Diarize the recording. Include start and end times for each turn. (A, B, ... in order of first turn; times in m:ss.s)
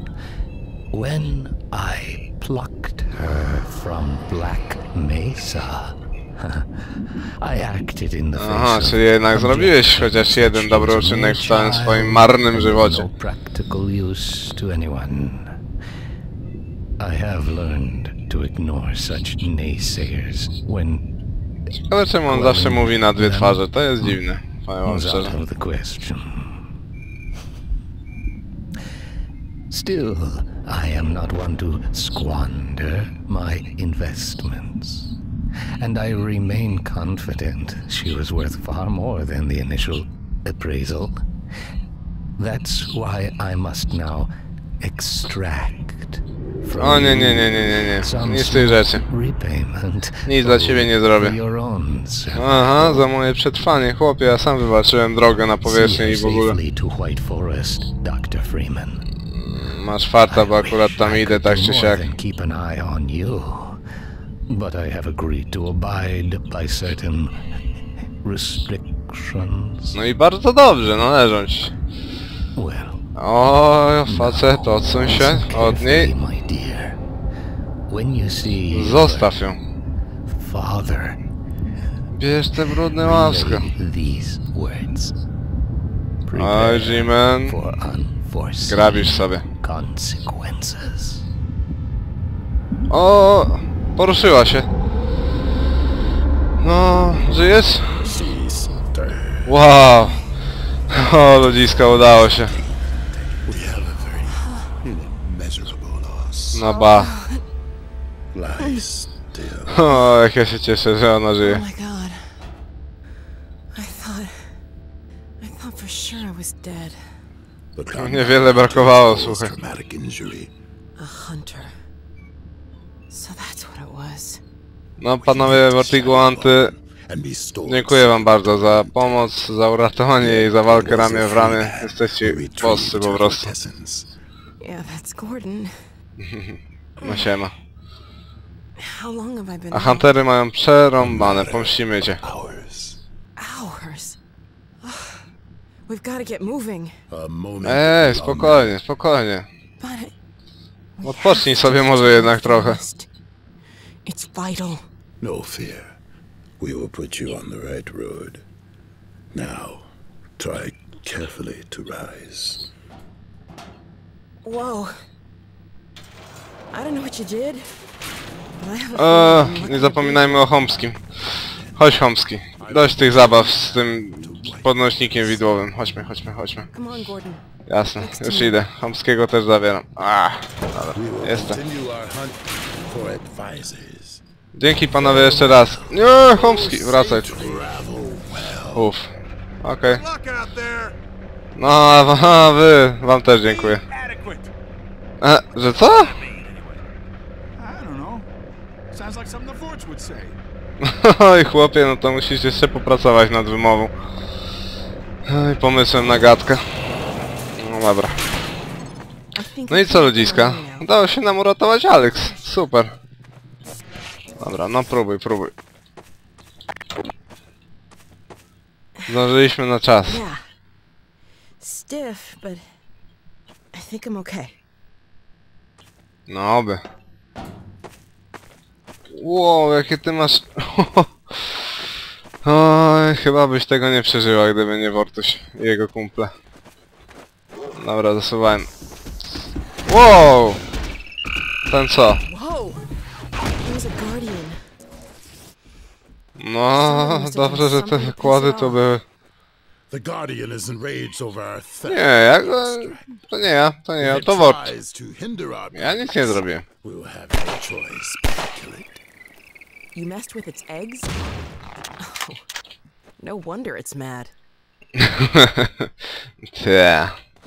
0:00.9-0:15.6 A
0:08.4-0:13.0 B
0:17.0-0:21.1 A
0:21.8-0:25.4 B
0:22.3-0:24.2 A
0:24.8-0:26.6 A
0:29.7-0:35.2 A
0:35.8-0:41.2 A
0:42.4-0:53.0 A
0:46.8-0:49.0 B
0:50.3-0:51.4 B
0:52.4-0:56.6 B
0:55.6-0:59.0 A
0:59.3-1:02.0 B
1:00.3-1:03.8 A
1:04.5-1:07.3 A
1:08.2-1:10.0 A
1:09.9-1:11.7 B
1:12.6-1:13.1 A
1:13.2-1:16.1 B
1:14.1-1:17.0 A
1:17.9-1:19.3 A
1:18.7-1:19.6 B
1:20.3-1:21.2 A
1:22.1-1:23.7 B
1:23.0-1:25.2 A
1:26.2-1:31.2 A
1:26.4-1:27.6 B
1:28.7-1:29.4 B
1:32.9-1:34.7 B
1:36.6-1:38.0 B
1:38.0-1:39.6 C
1:39.5-1:40.2 B
1:40.9-1:42.5 B
1:42.5-1:46.6 C
1:44.3-1:44.7 D
1:46.5-1:47.1 B
1:46.6-1:47.4 D
1:48.3-1:50.0 C
1:49.7-1:51.6 B
1:51.4-1:52.4 D
1:53.7-1:54.5 D
1:55.4-1:57.0 D
1:57.8-2:00.5 C
1:58.0-1:59.5 B
2:01.0-2:01.7 D
2:03.1-2:04.4 D
2:05.0-2:06.7 B
2:05.1-2:09.3 C
2:07.7-2:13.5 B
2:10.2-2:14.1 C
2:14.6-2:15.8 D
2:16.2-2:17.5 B
2:17.0-2:17.3 D
2:18.8-2:20.1 D
2:19.7-2:22.2 B
2:21.0-2:23.0 C
2:23.4-2:24.2 D
2:24.8-2:25.3 D
2:25.9-2:27.0 D
2:27.1-2:28.8 C
2:27.6-2:29.5 B
2:29.8-2:30.1 D
2:31.0-2:33.1 D
2:31.0-2:32.8 B
2:34.0-2:34.9 D
2:35.2-2:36.0 C
2:36.6-2:38.4 C
2:39.3-2:42.7 C
2:44.4-2:44.9 D
2:46.7-2:47.7 D
2:48.6-2:50.5 D
2:48.9-2:51.0 B
2:51.8-2:56.7 B
2:52.6-2:55.6 C
2:56.7-2:57.4 D
2:57.7-3:01.6 B
2:58.0-2:58.6 D
3:00.9-3:04.2 C
3:04.5-3:07.6 B
3:05.0-3:08.9 C
3:08.7-3:09.1 B
3:09.6-3:10.0 B
3:10.0-3:11.0 E
3:11.6-3:13.8 B
3:13.5-3:14.5 E
3:15.2-3:16.2 B
3:16.0-3:16.8 E
3:17.6-3:18.3 E
3:18.9-3:20.4 E
3:20.8-3:23.9 B
3:25.3-3:26.6 B
3:27.6-3:28.2 B
3:29.4-3:30.9 D
3:29.7-3:32.9 B
3:32.0-3:32.6 D
3:34.4-3:35.5 B
3:39.1-3:40.2 B
3:40.0-3:40.4 D
3:41.6-3:42.6 D
3:43.7-3:44.6 D
3:46.3-3:46.8 B
3:49.2-3:51.6 B
3:52.4-3:56.3 B
3:57.8-3:58.7 B
3:59.9-4:00.6 B
4:01.7-4:02.2 B
4:02.2-4:02.8 D
4:03.6-4:04.6 D
4:06.4-4:09.0 B
4:06.7-4:08.8 D
4:09.9-4:13.1 C
4:11.9-4:14.7 B
4:14.0-4:19.0 C
4:15.7-4:16.6 B
4:20.0-4:21.1 D
4:22.0-4:22.4 D
4:23.2-4:24.3 D
4:25.0-4:25.9 B
4:26.4-4:27.1 B